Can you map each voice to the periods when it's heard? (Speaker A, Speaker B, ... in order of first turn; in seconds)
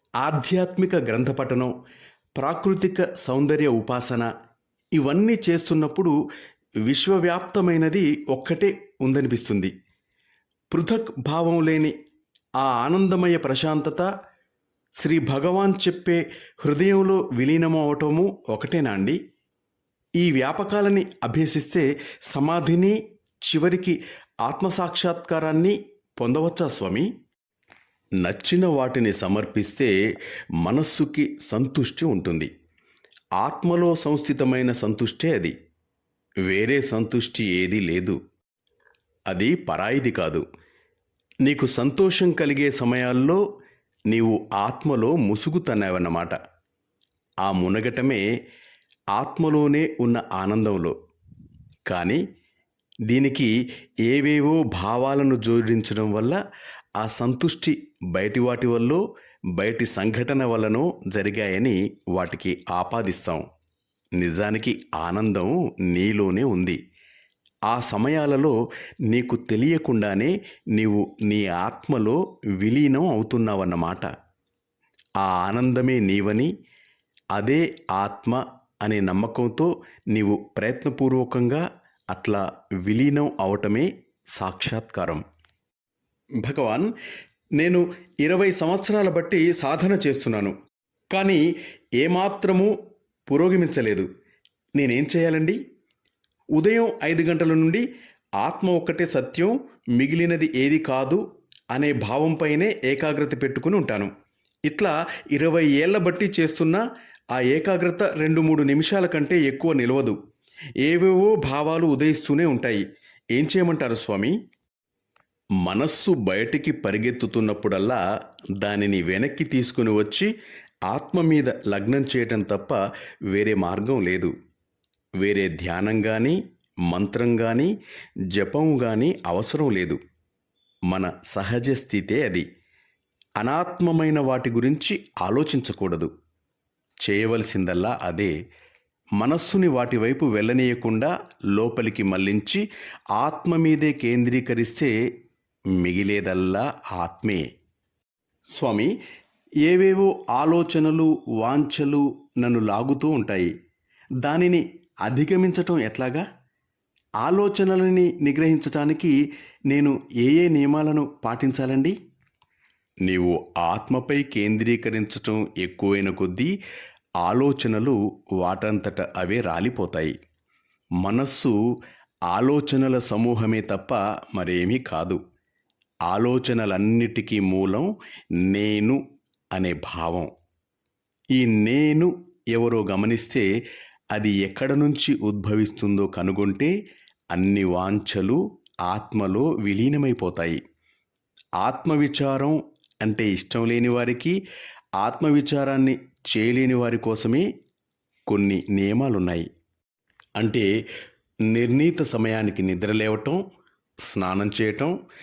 Speaker A: 0.2-1.7, 2.4-4.3, 5.0-6.1, 6.9-9.7, 10.7-11.9, 12.6-14.1, 15.0-19.2, 20.2-27.1, 28.2-29.9, 30.6-32.5, 33.4-35.5, 36.5-38.2, 39.3-40.5, 41.5-43.4, 44.1-46.4, 47.5-48.2, 49.1-51.0, 51.9-52.2, 53.1-53.5, 54.1-56.4, 57.0-59.0, 59.6-63.4, 64.2-66.8, 67.7-68.6, 69.1-74.1, 75.2-76.5, 77.3-85.2, 86.4-86.9, 87.6-90.5, 91.1-91.5, 92.0-92.7, 93.3-94.1, 94.8-95.6, 96.6-97.8, 98.4-101.2, 101.7-104.1, 104.7-106.8, 107.3-110.2, 110.8-114.4, 115.6-118.0, 118.6-120.3, 120.9-122.8, 123.3-124.3, 125.2-126.4, 126.9-127.7, 128.3-130.0, 130.9-132.5, 133.4-136.1, 137.0-138.3, 139.2-142.6, 143.2-144.9, 145.8-147.5, 148.5-148.9, 149.6-153.5, 154.2-156.2, 157.2-159.2, 159.7-162.0, 163.1-166.5, 167.2-170.2, 171.0-171.6, 172.3-175.2, 176.1-177.9, 178.4-179.0, 179.5-180.3, 181.3-183.5, 184.1-186.7, 187.3-190.6, 191.6-194.4, 195.0-197.5, 198.3-199.5, 200.4-200.7, 201.5-203.4, 204.1-204.9